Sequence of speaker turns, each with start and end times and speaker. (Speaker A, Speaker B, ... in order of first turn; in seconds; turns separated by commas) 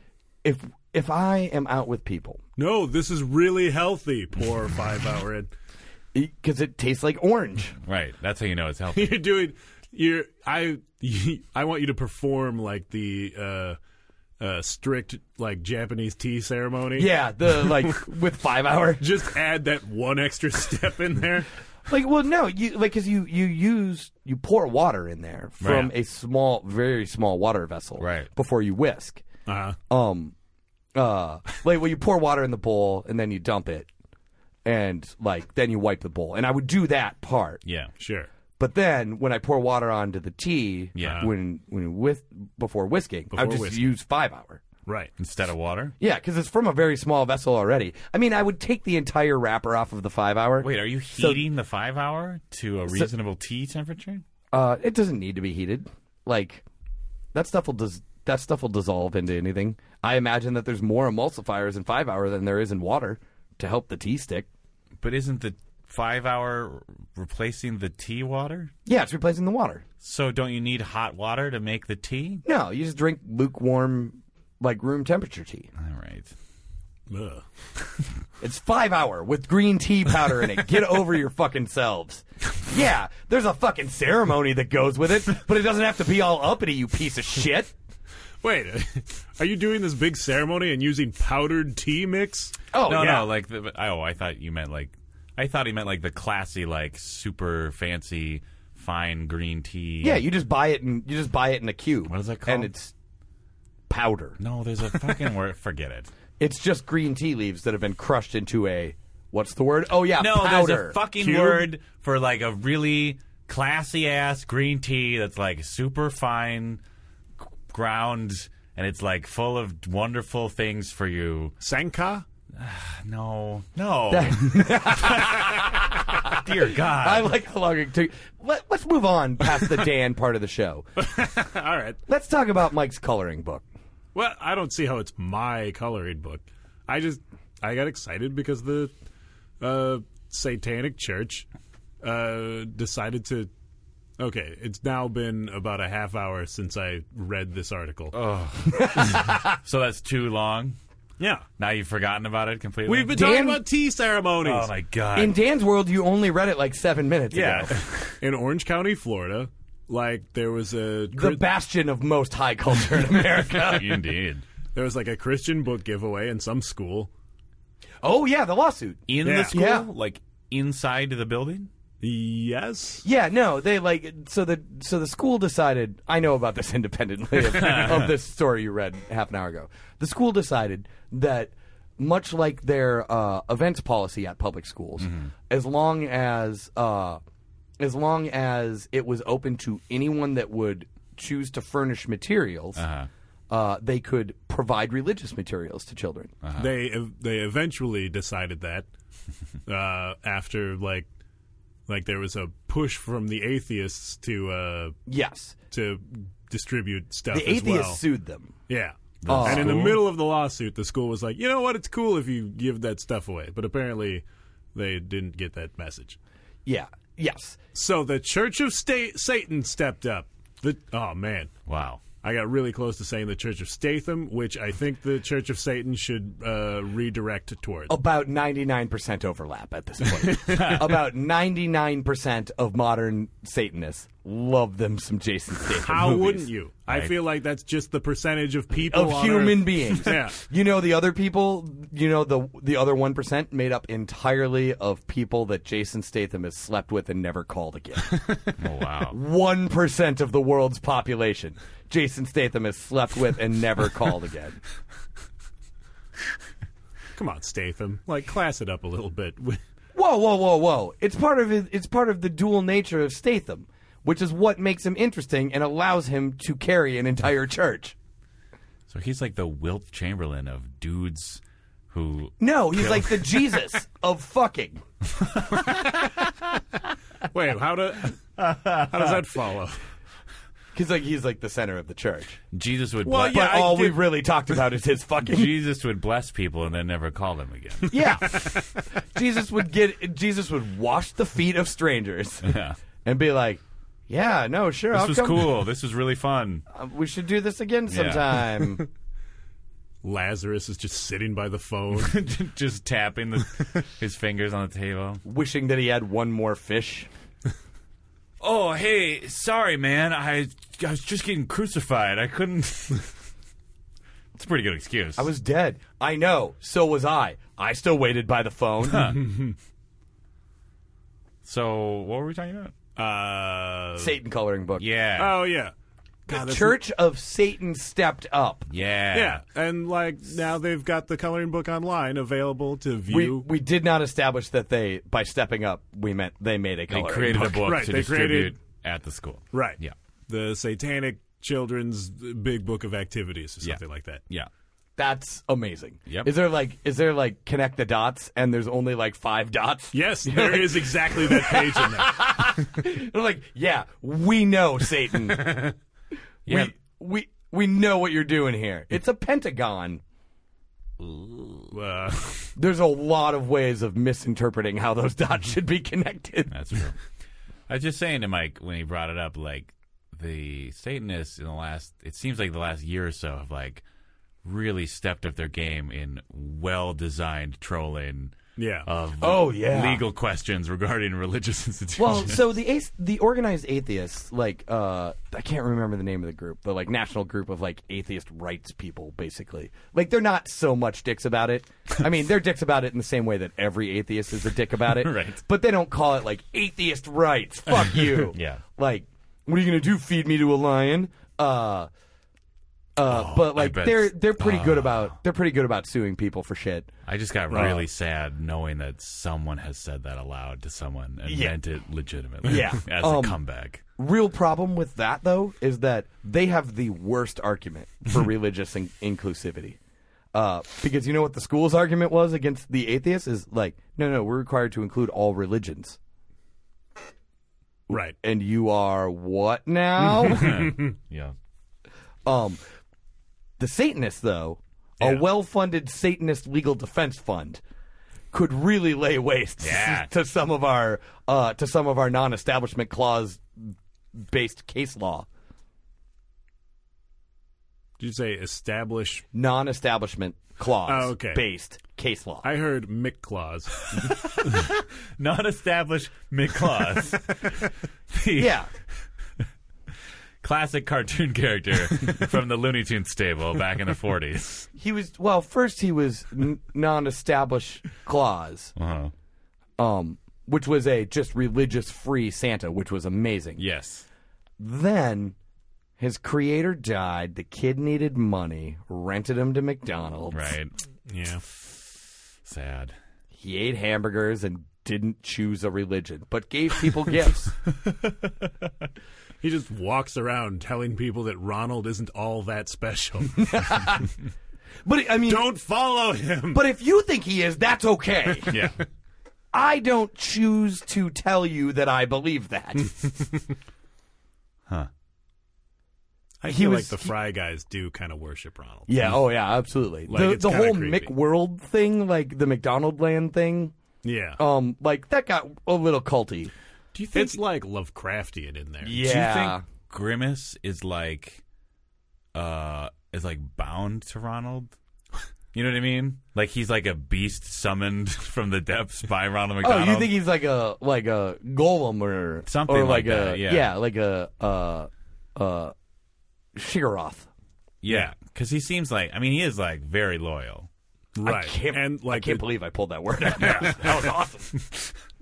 Speaker A: 0.4-2.4, Speaker B: 2.6-5.5, Speaker A: 6.1-7.8, Speaker C: 7.8-9.2, Speaker B: 8.9-13.8, Speaker B: 14.4-18.0, Speaker A: 16.9-19.1, Speaker B: 19.0-21.5, Speaker A: 21.9-29.2, Speaker C: 25.6-25.9, Speaker C: 28.0-28.3, Speaker B: 29.4-29.8, Speaker A: 29.9-30.3, Speaker A: 30.9-33.9, Speaker A: 34.6-37.6, Speaker C: 37.6-37.9, Speaker B: 38.0-38.3, Speaker A: 38.6-44.6, Speaker C: 41.0-41.3, Speaker B: 41.0-41.3, Speaker B: 43.3-43.9, Speaker B: 44.9-45.1, Speaker C: 45.2-46.0, Speaker A: 46.0-51.4, Speaker C: 50.6-54.2, Speaker A: 54.5-56.6, Speaker A: 57.3-64.5, Speaker C: 65.0-68.7, Speaker A: 68.8-69.8, Speaker C: 70.0-72.4, Speaker A: 72.4-75.7, Speaker C: 75.8-76.3, Speaker B: 77.1-77.5, Speaker A: 78.4-87.7, Speaker B: 88.4-93.2, Speaker A: 92.7-93.2, Speaker C: 92.8-100.2, Speaker A: 100.0-102.9, Speaker C: 102.1-102.7, Speaker A: 103.9-104.4, Speaker C: 104.4-106.1, Speaker A: 106.4-111.0, Speaker C: 110.2-116.8, Speaker B: 111.2-111.7, Speaker C: 117.4-121.5, Speaker B: 121.6-122.2, Speaker C: 122.5-127.3, Speaker A: 124.1-130.8, Speaker B: 131.0-132.0, Speaker A: 132.1-133.6, Speaker B: 134.1-138.9, Speaker B: 139.6-141.4, Speaker B: 142.0-143.5, Speaker B: 144.2-148.2, Speaker C: 148.1-150.8, Speaker A: 148.7-149.6, Speaker B: 151.2-151.4, Speaker C: 151.6-153.3, Speaker B: 152.8-154.7, Speaker A: 153.1-153.6, Speaker C: 154.4-155.3, Speaker A: 155.1-157.8, Speaker C: 157.3-158.2, Speaker B: 158.2-161.4, Speaker A: 161.1-164.0, Speaker C: 163.5-164.4, Speaker B: 164.7-167.1, Speaker A: 168.0-169.9, Speaker C: 169.1-171.7, Speaker B: 169.2-169.6, Speaker B: 172.0-173.0, Speaker A: 173.0-187.2, Speaker C: 177.6-178.0, Speaker C: 185.0-185.3, Speaker A: 187.8-192.8, Speaker C: 192.8-193.1, Speaker A: 193.5-196.3, Speaker C: 196.4-196.7, Speaker B: 196.6-198.9, Speaker B: 199.7-201.1, Speaker B: 201.9-205.0, Speaker A: 205.1-205.5, Speaker B: 205.7-208.0, Speaker A: 207.3-208.5, Speaker B: 208.7-214.2, Speaker C: 209.2-210.1, Speaker A: 209.3-209.9, Speaker B: 214.7-216.2, Speaker A: 216.7-217.6, Speaker B: 217.7-221.5, Speaker C: 221.7-222.0, Speaker B: 222.2-227.9, Speaker A: 227.9-236.5, Speaker B: 230.2-230.8, Speaker C: 230.6-230.8, Speaker B: 235.8-240.4, Speaker C: 236.9-237.2, Speaker A: 238.9-248.5, Speaker C: 248.6-249.2, Speaker A: 249.1-254.6, Speaker B: 257.1-259.6, Speaker A: 259.9-267.9, Speaker C: 268.9-273.4, Speaker A: 272.4-274.8, Speaker C: 275.2-276.3, Speaker B: 277.3-279.8, Speaker C: 278.4-279.2, Speaker A: 280.7-282.4, Speaker C: 282.5-283.6, Speaker B: 283.0-284.2, Speaker A: 283.3-285.5, Speaker C: 285.2-288.1, Speaker A: 287.9-295.6, Speaker B: 288.3-288.7, Speaker C: 292.4-292.8, Speaker C: 294.9-296.6, Speaker A: 296.7-298.8, Speaker C: 297.9-298.4, Speaker B: 300.0-302.1, Speaker C: 301.9-305.2, Speaker A: 305.2-307.1, Speaker C: 308.4-313.1, Speaker C: 314.3-315.3, Speaker A: 315.2-319.2, Speaker C: 318.9-319.2, Speaker B: 319.2-319.5, Speaker C: 321.4-322.7, Speaker B: 322.9-324.1, Speaker A: 324.0-324.9, Speaker C: 324.8-325.4, Speaker B: 325.2-325.7, Speaker B: 326.3-326.8, Speaker A: 326.3-328.7, Speaker C: 328.7-329.4, Speaker B: 329.1-333.5, Speaker A: 333.1-337.7, Speaker C: 336.9-339.9, Speaker B: 337.3-338.6, Speaker B: 339.5-344.2, Speaker C: 343.6-344.5, Speaker A: 345.0-355.7, Speaker C: 346.1-346.3, Speaker B: 349.9-352.6, Speaker C: 356.4-356.7, Speaker A: 356.4-360.0, Speaker C: 361.0-361.7, Speaker B: 361.7-362.5, Speaker A: 362.6-366.5, Speaker C: 366.5-366.9, Speaker C: 367.7-373.8, Speaker C: 374.4-382.4, Speaker B: 378.6-378.9, Speaker A: 379.2-380.0, Speaker A: 382.0-401.9, Speaker C: 394.9-395.4, Speaker C: 398.3-398.6, Speaker A: 402.9-406.9, Speaker C: 403.0-405.1, Speaker C: 407.0-413.8, Speaker B: 407.5-407.8, Speaker A: 407.5-407.8, Speaker A: 411.2-411.6, Speaker A: 412.4-413.4, Speaker A: 414.0-419.8, Speaker A: 420.3-426.0, Speaker A: 427.9-430.6, Speaker B: 427.9-428.1, Speaker C: 430.1-431.3, Speaker A: 432.2-432.6, Speaker A: 433.6-437.6, Speaker A: 438.3-445.3, Speaker C: 439.6-440.1, Speaker B: 448.0-449.2, Speaker A: 449.3-452.5, Speaker B: 450.9-451.4, Speaker B: 452.4-454.2, Speaker C: 453.9-458.6, Speaker A: 458.3-458.7, Speaker C: 460.4-464.7, Speaker A: 464.7-468.7, Speaker C: 468.8-469.1, Speaker A: 469.8-473.6, Speaker C: 473.6-474.1, Speaker A: 474.6-475.4, Speaker A: 476.0-480.5, Speaker C: 480.3-480.7, Speaker B: 481.1-481.4, Speaker C: 482.4-482.9, Speaker A: 483.3-487.5, Speaker B: 489.4-494.0, Speaker A: 493.4-494.1, Speaker A: 494.8-495.5, Speaker B: 495.2-496.6, Speaker A: 496.5-498.5, Speaker C: 498.5-498.8, Speaker A: 499.5-503.1, Speaker B: 506.4-509.2, Speaker A: 506.4-507.1, Speaker A: 508.9-513.7, Speaker B: 510.1-511.1, Speaker B: 514.0-514.4, Speaker A: 514.4-516.5, Speaker B: 517.1-519.0, Speaker A: 518.8-519.6, Speaker C: 519.0-521.4, Speaker C: 522.3-524.8, Speaker C: 525.5-530.1, Speaker A: 529.6-535.7, Speaker C: 532.5-533.7, Speaker A: 536.5-537.3, Speaker C: 537.8-540.7, Speaker B: 537.9-538.1, Speaker B: 541.1-542.5, Speaker A: 541.2-544.6, Speaker B: 543.4-544.0